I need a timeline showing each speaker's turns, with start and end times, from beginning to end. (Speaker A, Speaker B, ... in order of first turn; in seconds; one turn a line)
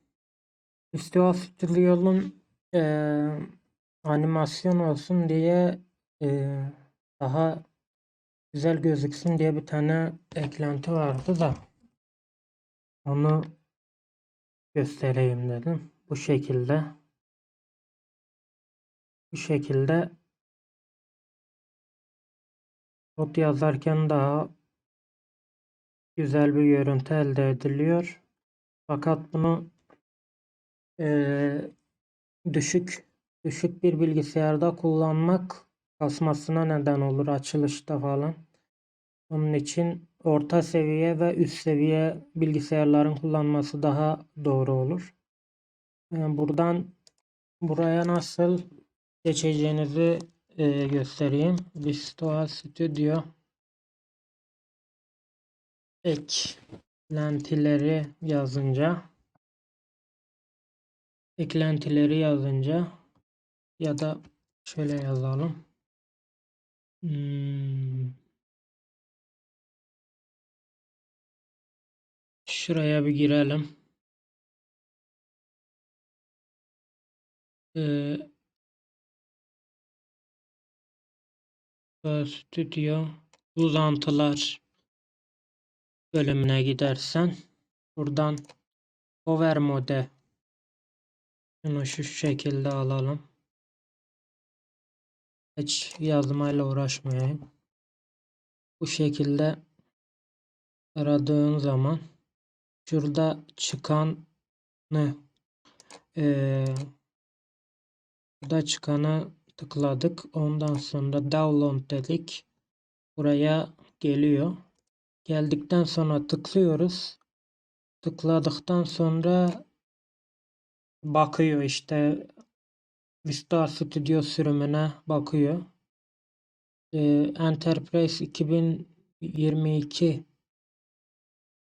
Speaker A: 0.9-3.4
Speaker A: 4.0-7.6
Speaker A: 8.5-11.6
Speaker A: 13.0-13.5
Speaker A: 14.7-16.9
Speaker A: 19.3-20.1
Speaker A: 23.2-24.5
Speaker A: 26.2-28.2
Speaker A: 28.9-29.7
Speaker A: 31.0-31.7
Speaker A: 32.5-38.4
Speaker A: 39.3-45.1
Speaker A: 46.1-46.9
Speaker A: 47.6-48.6
Speaker A: 49.2-53.2
Speaker A: 56.0-59.0
Speaker A: 61.4-62.9
Speaker A: 63.8-65.6
Speaker A: 67.0-68.1
Speaker A: 72.5-73.7
Speaker A: 77.7-78.3
Speaker A: 82.0-84.6
Speaker A: 86.1-87.3
Speaker A: 88.0-88.4
Speaker A: 89.2-90.1
Speaker A: 91.6-93.2
Speaker A: 95.5-97.4
Speaker A: 98.8-99.6
Speaker A: 101.0-102.0
Speaker A: 102.9-104.2
Speaker A: 104.9-105.2
Speaker A: 106.2-106.9
Speaker A: 108.4-112.5
Speaker A: 113.2-114.6
Speaker A: 115.2-117.2
Speaker A: 118.0-119.6
Speaker A: 121.0-122.2
Speaker A: 123.2-125.6
Speaker A: 126.9-130.2